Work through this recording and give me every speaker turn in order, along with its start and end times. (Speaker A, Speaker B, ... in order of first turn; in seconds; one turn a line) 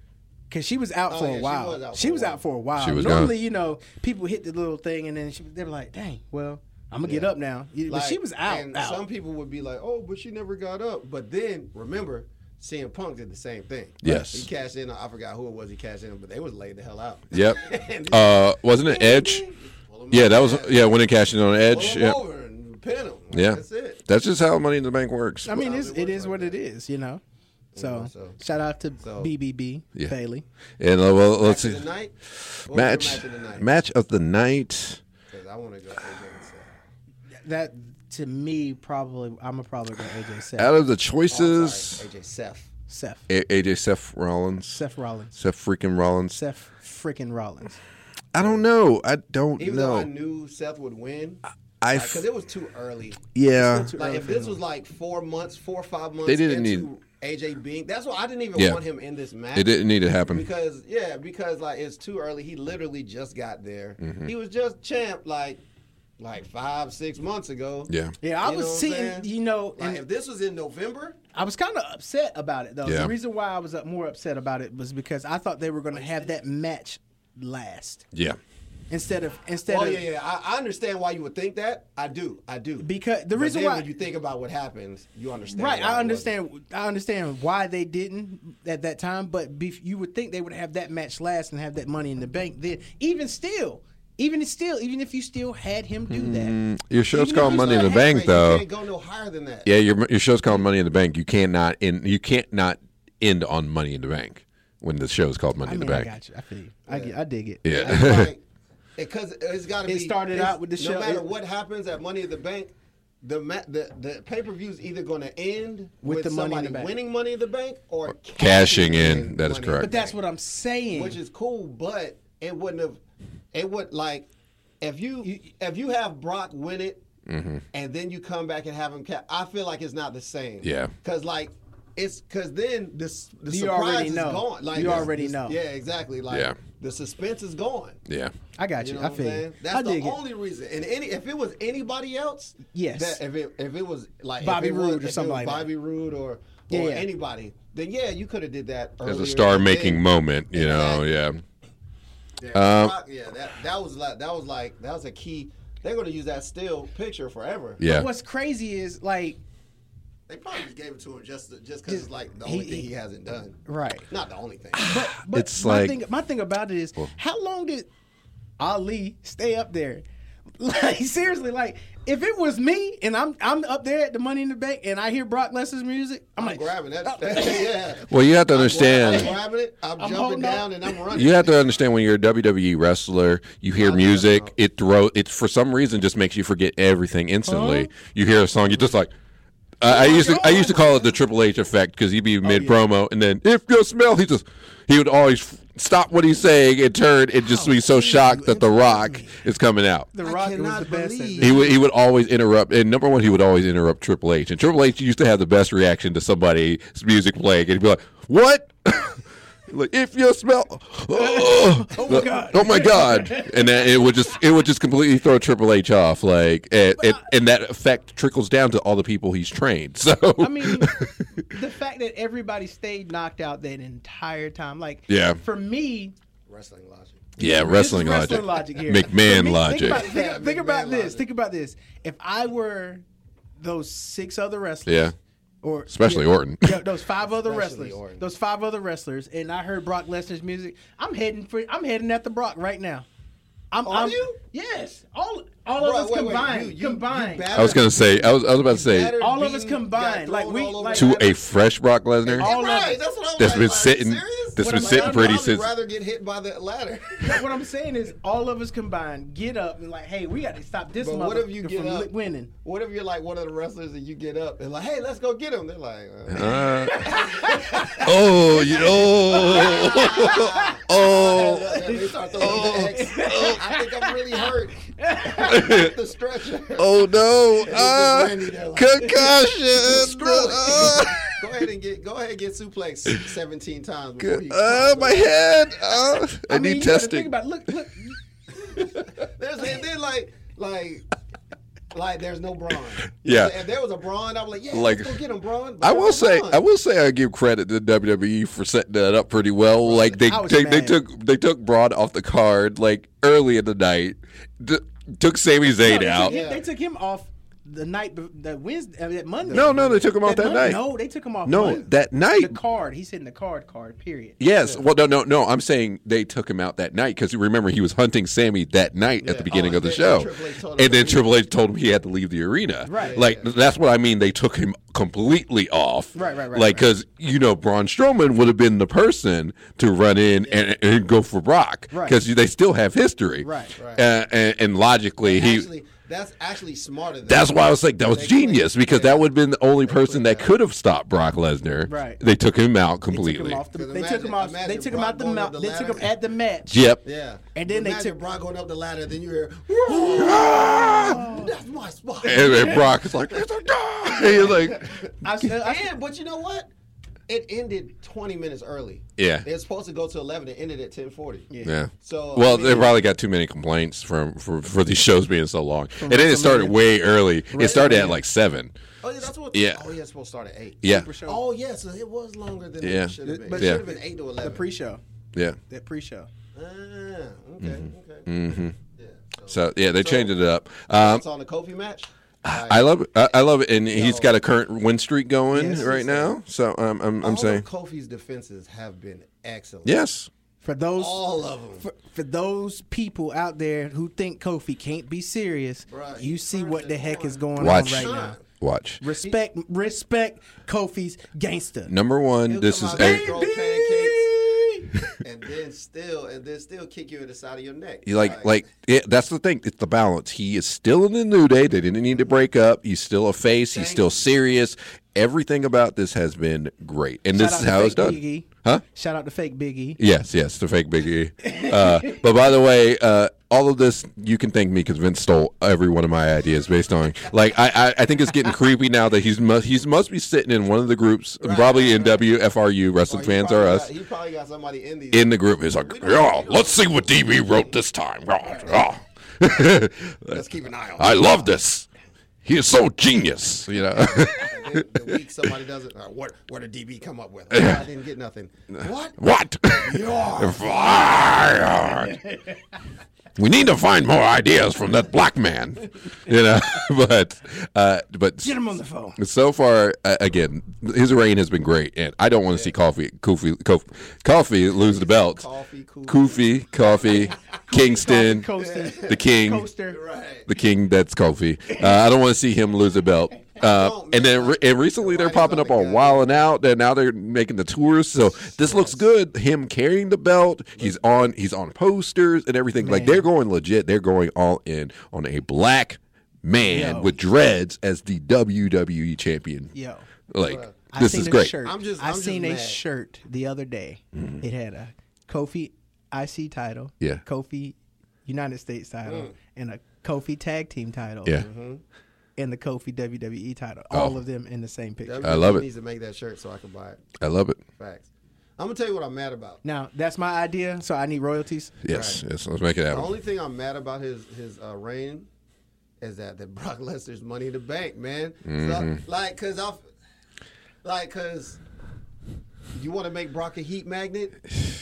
Speaker A: 0.5-9.0
Speaker B: 1.1-2.4
Speaker C: 2.8-3.3
Speaker B: 7.0-7.3
Speaker B: 7.9-21.0
Speaker C: 14.0-14.5
Speaker C: 17.3-19.4
Speaker C: 20.1-22.2
Speaker B: 21.6-24.0
Speaker C: 23.3-25.6
Speaker A: 25.4-27.2
Speaker B: 25.5-26.6
Speaker B: 27.7-28.4
Speaker A: 27.8-30.4
Speaker B: 29.0-29.3
Speaker C: 30.8-35.0
Speaker B: 31.4-32.1
Speaker B: 32.6-33.6
Speaker B: 35.3-36.7
Speaker A: 37.4-40.7
Speaker C: 40.5-42.0
Speaker B: 41.3-42.7
Speaker A: 42.9-43.2
Speaker C: 43.3-44.8
Speaker A: 44.7-45.3
Speaker C: 45.4-46.4
Speaker A: 46.3-47.8
Speaker C: 48.3-50.1
Speaker B: 49.6-53.2
Speaker C: 51.8-52.2
Speaker C: 53.3-53.9
Speaker A: 53.5-54.6
Speaker B: 54.0-65.6
Speaker C: 56.2-56.9
Speaker C: 58.5-58.8
Speaker C: 59.5-60.5
Speaker C: 64.0-64.3
Speaker B: 66.2-71.2
Speaker C: 67.9-68.1
Speaker A: 68.2-70.0
Speaker A: 71.3-78.0
Speaker C: 72.8-73.1
Speaker B: 75.9-76.3
Speaker A: 78.9-80.0
Speaker B: 79.7-86.3
Speaker A: 82.8-83.9
Speaker A: 85.5-96.6
Speaker C: 96.1-98.6
Speaker A: 97.1-98.1
Speaker B: 97.1-99.7
Speaker C: 99.6-106.1
Speaker A: 105.6-107.9
Speaker B: 106.9-107.2
Speaker C: 107.6-108.3
Speaker B: 107.7-108.4
Speaker B: 109.0-120.2
Speaker A: 109.8-111.3
Speaker A: 116.0-116.9
Speaker C: 118.3-119.9
Speaker A: 119.8-121.2
Speaker B: 120.9-123.0
Speaker B: 123.5-124.3
Speaker B: 124.8-127.0
Speaker C: 127.2-127.6
Speaker B: 127.7-138.0
Speaker C: 130.6-130.9
Speaker A: 133.5-135.6
Speaker C: 134.8-135.1
Speaker C: 136.3-136.6
Speaker C: 138.1-138.3
Speaker A: 138.6-140.2
Speaker B: 138.8-151.1
Speaker A: 142.7-143.2
Speaker A: 144.4-145.7
Speaker A: 146.7-147.1
Speaker C: 149.0-151.4
Speaker B: 152.4-157.8
Speaker C: 152.5-152.9
Speaker C: 157.8-158.1
Speaker A: 157.8-159.4
Speaker B: 160.3-164.9
Speaker A: 161.9-162.9
Speaker A: 163.7-164.1
Speaker C: 164.8-166.0
Speaker A: 164.8-167.9
Speaker A: 168.6-170.0
Speaker A: 170.6-177.8
Speaker B: 176.4-181.6
Speaker C: 178.1-179.4
Speaker A: 180.0-181.0
Speaker C: 181.1-189.1
Speaker B: 183.8-184.5
Speaker A: 187.4-187.9
Speaker C: 189.8-200.1
Speaker A: 189.8-191.1
Speaker A: 192.4-192.8
Speaker B: 197.6-198.6
Speaker A: 197.8-199.3
Speaker A: 200.1-201.7
Speaker B: 200.2-201.8
Speaker C: 201.4-221.4
Speaker A: 211.1-214.4
Speaker A: 217.0-217.2
Speaker A: 220.4-226.1
Speaker C: 225.1-225.4
Speaker B: 226.5-227.3
Speaker C: 227.4-230.1
Speaker A: 227.4-233.0
Speaker B: 229.8-231.2
Speaker A: 233.6-235.1
Speaker C: 234.8-235.1
Speaker A: 235.6-243.1
Speaker C: 235.9-236.8
Speaker B: 237.2-238.2
Speaker A: 243.7-247.8
Speaker B: 243.8-244.4
Speaker B: 245.8-251.4
Speaker C: 247.5-249.1
Speaker A: 249.2-251.2
Speaker C: 250.9-252.5
Speaker B: 252.2-257.4
Speaker A: 252.4-253.0
Speaker C: 253.4-255.7
Speaker A: 254.6-255.4
Speaker A: 257.2-262.5
Speaker B: 261.0-262.1
Speaker B: 262.6-277.1
Speaker C: 266.3-267.1
Speaker A: 266.5-275.8
Speaker C: 267.9-271.8
Speaker C: 272.4-273.6
Speaker C: 275.4-275.9
Speaker C: 276.8-281.2
Speaker B: 277.6-285.5
Speaker A: 279.0-279.4
Speaker A: 280.8-281.1
Speaker C: 284.2-287.3
Speaker A: 286.5-288.2
Speaker B: 288.6-291.1
Speaker B: 291.9-296.6
Speaker C: 293.2-293.5
Speaker C: 294.7-295.1
Speaker C: 295.8-306.4
Speaker B: 299.8-300.2
Speaker A: 300.3-301.0
Speaker A: 305.8-314.4
Speaker B: 306.2-306.6
Speaker C: 309.4-310.8
Speaker C: 311.4-312.6
Speaker B: 311.6-311.8
Speaker C: 314.4-335.7
Speaker B: 319.2-321.3
Speaker A: 322.9-323.2
Speaker B: 322.9-323.5
Speaker A: 326.1-326.9
Speaker A: 331.9-332.2
Speaker A: 333.4-333.7
Speaker B: 333.7-334.0
Speaker B: 335.2-339.3
Speaker C: 337.2-343.6
Speaker B: 339.8-340.5
Speaker A: 341.9-342.2
Speaker A: 343.1-346.9
Speaker B: 343.7-346.1
Speaker C: 346.7-347.0
Speaker B: 347.0-353.4
Speaker A: 347.5-348.2
Speaker C: 349.9-351.2
Speaker A: 350.0-351.6
Speaker A: 352.2-352.9
Speaker C: 352.2-354.9
Speaker B: 354.0-356.7
Speaker A: 355.2-355.9
Speaker B: 357.3-363.0
Speaker C: 359.2-359.4
Speaker A: 361.5-361.7
Speaker C: 361.6-368.7
Speaker A: 366.0-366.8
Speaker A: 367.5-368.2
Speaker B: 367.6-368.2
Speaker B: 369.0-374.6
Speaker C: 369.5-369.8
Speaker C: 370.8-371.1
Speaker A: 370.8-371.4
Speaker C: 372.8-373.8
Speaker A: 373.2-375.0
Speaker A: 375.7-376.3
Speaker B: 376.5-378.3
Speaker C: 377.6-378.8
Speaker B: 378.9-380.3
Speaker C: 379.5-381.2
Speaker B: 380.9-382.9
Speaker C: 382.4-387.6
Speaker B: 383.9-384.4
Speaker A: 385.5-385.9
Speaker B: 385.5-386.4
Speaker B: 387.2-390.0
Speaker C: 389.8-390.3
Speaker A: 390.6-391.2
Speaker B: 390.9-391.9
Speaker A: 391.8-398.4
Speaker B: 395.9-398.4
Speaker C: 397.6-399.0
Speaker A: 399.0-401.9
Speaker C: 401.9-403.3
Speaker B: 402.5-404.6
Speaker A: 402.9-405.1
Speaker B: 405.2-408.6
Speaker C: 408.1-418.8
Speaker B: 413.7-414.2
Speaker A: 417.3-420.0
Speaker C: 420.0-433.9
Speaker A: 421.4-422.3
Speaker B: 431.4-432.2
Speaker B: 433.1-437.7
Speaker C: 435.1-440.4
Speaker B: 440.2-441.5
Speaker C: 441.0-441.9
Speaker C: 442.4-445.1
Speaker B: 444.4-451.4
Speaker C: 447.5-447.8
Speaker C: 448.7-452.2
Speaker A: 451.9-452.6
Speaker C: 453.4-458.6
Speaker A: 458.4-459.2
Speaker C: 459.1-465.4
Speaker B: 464.7-467.4
Speaker C: 466.1-468.5
Speaker A: 467.7-470.0
Speaker B: 468.6-469.2
Speaker C: 469.1-469.7
Speaker B: 469.9-470.5
Speaker C: 470.5-489.7
Speaker B: 473.6-476.5
Speaker B: 478.4-479.0
Speaker A: 482.8-483.2
Speaker A: 486.6-487.1
Speaker A: 489.7-490.1
Speaker C: 490.3-491.5
Speaker B: 490.4-490.8
Speaker A: 490.9-501.4
Speaker B: 491.6-492.8
Speaker B: 499.1-499.3
Speaker B: 501.4-501.8
Speaker A: 502.4-505.3
Speaker C: 503.9-504.2
Speaker B: 505.0-507.1
Speaker C: 505.2-505.6
Speaker C: 507.2-507.6
Speaker B: 507.8-509.6
Speaker A: 509.6-511.8
Speaker C: 511.8-513.1
Speaker B: 511.9-512.2
Speaker B: 512.9-515.3
Speaker B: 516.0-519.8
Speaker C: 518.5-519.0
Speaker B: 520.8-521.6
Speaker B: 522.7-524.4